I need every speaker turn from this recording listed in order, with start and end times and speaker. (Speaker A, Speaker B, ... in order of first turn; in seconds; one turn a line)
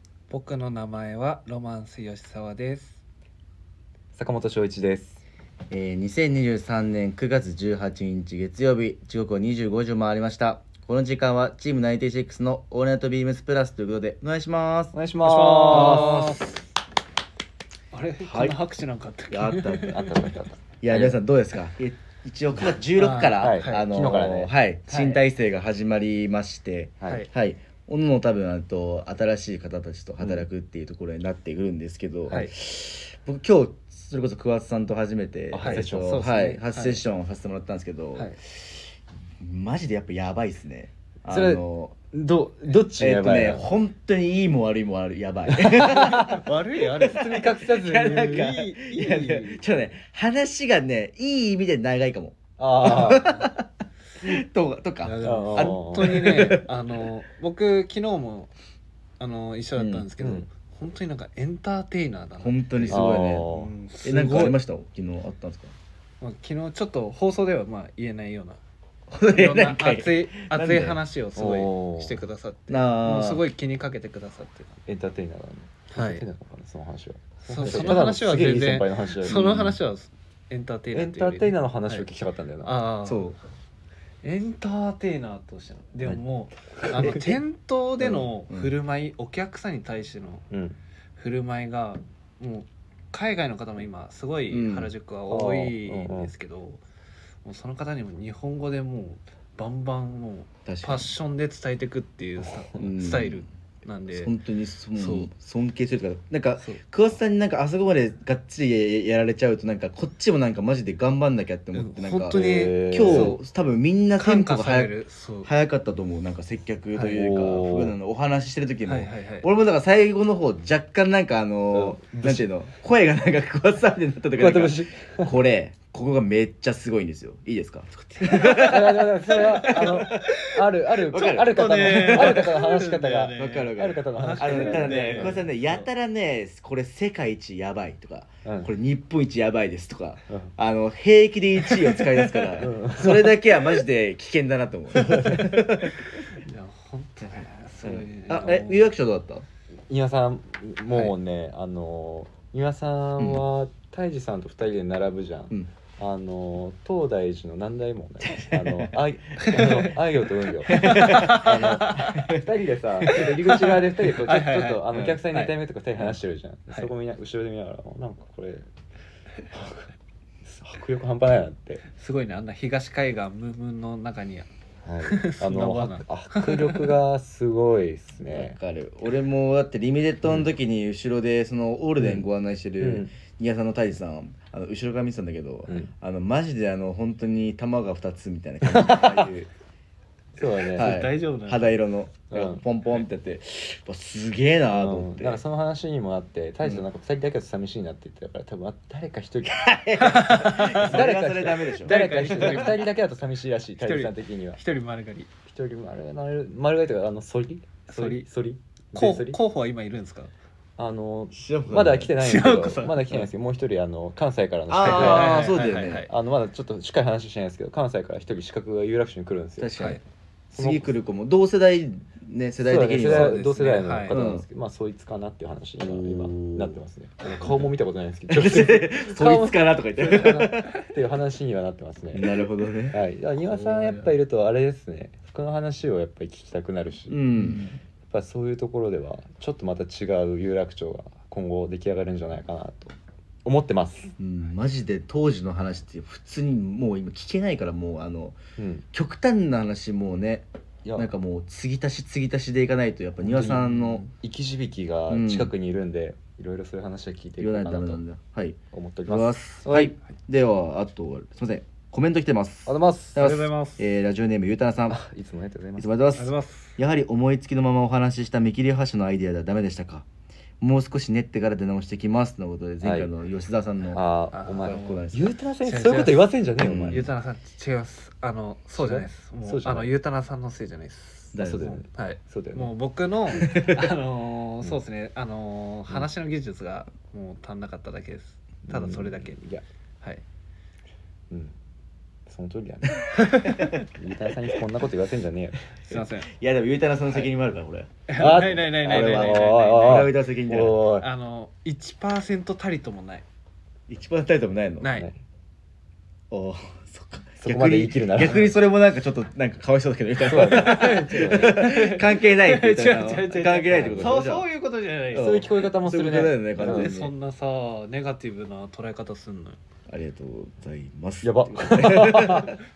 Speaker A: 0.3-3.0
Speaker B: 4.1-5.2
Speaker C: 5.7-14.9
Speaker B: 14.9-16.2
Speaker A: 15.2-16.5
Speaker C: 15.7-16.6
Speaker A: 17.9-20.4
Speaker C: 18.2-18.6
Speaker C: 19.3-20.0
Speaker B: 19.9-21.2
Speaker C: 20.8-38.9
Speaker A: 22.9-23.9
Speaker B: 23.4-24.5
Speaker A: 24.9-25.2
Speaker B: 30.2-30.4
Speaker B: 35.5-36.6
Speaker A: 35.6-37.0
Speaker C: 39.4-42.0
Speaker B: 41.3-43.7
Speaker C: 42.7-53.7
Speaker B: 45.5-49.6
Speaker A: 46.0-47.4
Speaker B: 52.6-53.5
Speaker C: 54.2-56.7
Speaker A: 55.0-58.5
Speaker B: 55.2-56.1
Speaker A: 59.2-64.6
Speaker C: 59.8-60.1
Speaker B: 60.2-60.5
Speaker C: 62.4-63.5
Speaker B: 62.9-63.7
Speaker C: 64.0-65.7
Speaker A: 66.2-68.6
Speaker C: 69.1-71.0
Speaker A: 69.3-74.7
Speaker B: 71.3-72.2
Speaker C: 72.7-73.4
Speaker B: 74.9-79.7
Speaker A: 75.9-76.2
Speaker A: 77.5-82.1
Speaker C: 77.6-78.1
Speaker C: 79.2-79.7
Speaker B: 80.9-82.8
Speaker A: 82.6-83.3
Speaker C: 83.0-83.4
Speaker A: 84.2-90.5
Speaker B: 86.7-87.3
Speaker C: 86.9-87.3
Speaker C: 88.0-88.7
Speaker B: 90.5-90.8
Speaker A: 91.2-96.8
Speaker C: 94.5-94.9
Speaker B: 95.3-96.3
Speaker A: 97.5-104.3
Speaker C: 100.7-101.1
Speaker C: 102.8-103.5
Speaker C: 104.1-132.5
Speaker A: 105.0-105.3
Speaker A: 111.7-113.4
Speaker B: 112.3-113.4
Speaker A: 114.2-115.5
Speaker B: 117.1-118.0
Speaker A: 118.8-119.5
Speaker B: 121.7-122.5
Speaker B: 124.4-125.3
Speaker B: 128.2-135.4
Speaker A: 131.3-135.9
Speaker C: 133.4-146.0
Speaker B: 138.4-138.7
Speaker B: 142.4-143.6
Speaker B: 145.0-145.4
Speaker A: 146.3-148.9
Speaker C: 148.3-149.5
Speaker B: 149.9-168.7
Speaker C: 153.2-153.4
Speaker C: 158.3-159.8
Speaker A: 159.4-159.8
Speaker C: 160.7-162.5
Speaker A: 160.7-162.2
Speaker A: 163.0-165.6
Speaker B: 169.5-169.9
Speaker B: 170.4-171.8
Speaker A: 171.9-174.5
Speaker B: 174.8-178.6
Speaker A: 175.0-177.0
Speaker C: 178.2-189.5
Speaker B: 182.0-182.3
Speaker B: 182.8-183.1
Speaker B: 188.7-189.3
Speaker B: 190.4-191.0
Speaker A: 190.6-191.8
Speaker C: 190.8-195.4
Speaker B: 192.3-192.6
Speaker B: 194.7-204.6
Speaker C: 199.5-202.7
Speaker A: 200.0-201.0
Speaker A: 201.8-202.9
Speaker A: 203.8-205.3
Speaker B: 205.4-209.4
Speaker A: 207.9-208.3
Speaker A: 208.9-210.3
Speaker B: 210.8-219.8
Speaker C: 211.3-212.1
Speaker A: 212.2-213.3
Speaker C: 214.7-216.1
Speaker A: 214.8-216.1
Speaker C: 219.6-220.0
Speaker B: 220.5-220.9
Speaker C: 220.5-223.5
Speaker B: 222.6-237.3
Speaker A: 223.0-224.1
Speaker C: 224.1-224.4
Speaker C: 225.8-227.7
Speaker C: 228.3-230.8
Speaker C: 232.1-233.0
Speaker A: 233.4-234.1
Speaker C: 237.1-237.7
Speaker B: 238.1-244.1
Speaker C: 244.2-248.4
Speaker B: 248.6-248.8
Speaker C: 248.9-254.1
Speaker B: 250.8-251.1
Speaker B: 253.2-258.0
Speaker C: 255.1-255.5
Speaker C: 257.4-265.0
Speaker B: 258.7-259.9
Speaker B: 262.7-263.2
Speaker A: 263.2-263.8
Speaker B: 264.9-265.9
Speaker C: 265.8-270.1
Speaker A: 266.1-266.8
Speaker C: 270.6-274.0
Speaker B: 272.8-273.1
Speaker B: 273.9-277.1
Speaker A: 274.3-275.1
Speaker C: 274.6-275.3
Speaker A: 275.6-289.4
Speaker C: 276.6-277.1
Speaker B: 278.8-279.9
Speaker C: 281.3-281.8
Speaker B: 281.4-282.7
Speaker C: 283.3-283.9
Speaker B: 288.7-289.6
Speaker B: 291.3-291.6
Speaker B: 292.3-295.6
Speaker A: 293.1-293.9
Speaker C: 293.4-293.8
Speaker A: 295.9-296.3
Speaker C: 295.9-300.8
Speaker A: 298.1-300.1
Speaker B: 298.2-301.1
Speaker A: 301.0-303.2
Speaker C: 303.9-304.9
Speaker A: 304.8-305.1
Speaker B: 304.9-305.2
Speaker C: 306.3-314.4
Speaker B: 307.4-308.6
Speaker B: 310.3-311.6
Speaker A: 310.4-315.5
Speaker B: 313.7-314.2
Speaker C: 315.1-317.1
Speaker B: 315.1-316.9
Speaker A: 316.6-319.6
Speaker C: 319.9-322.6
Speaker B: 321.2-322.6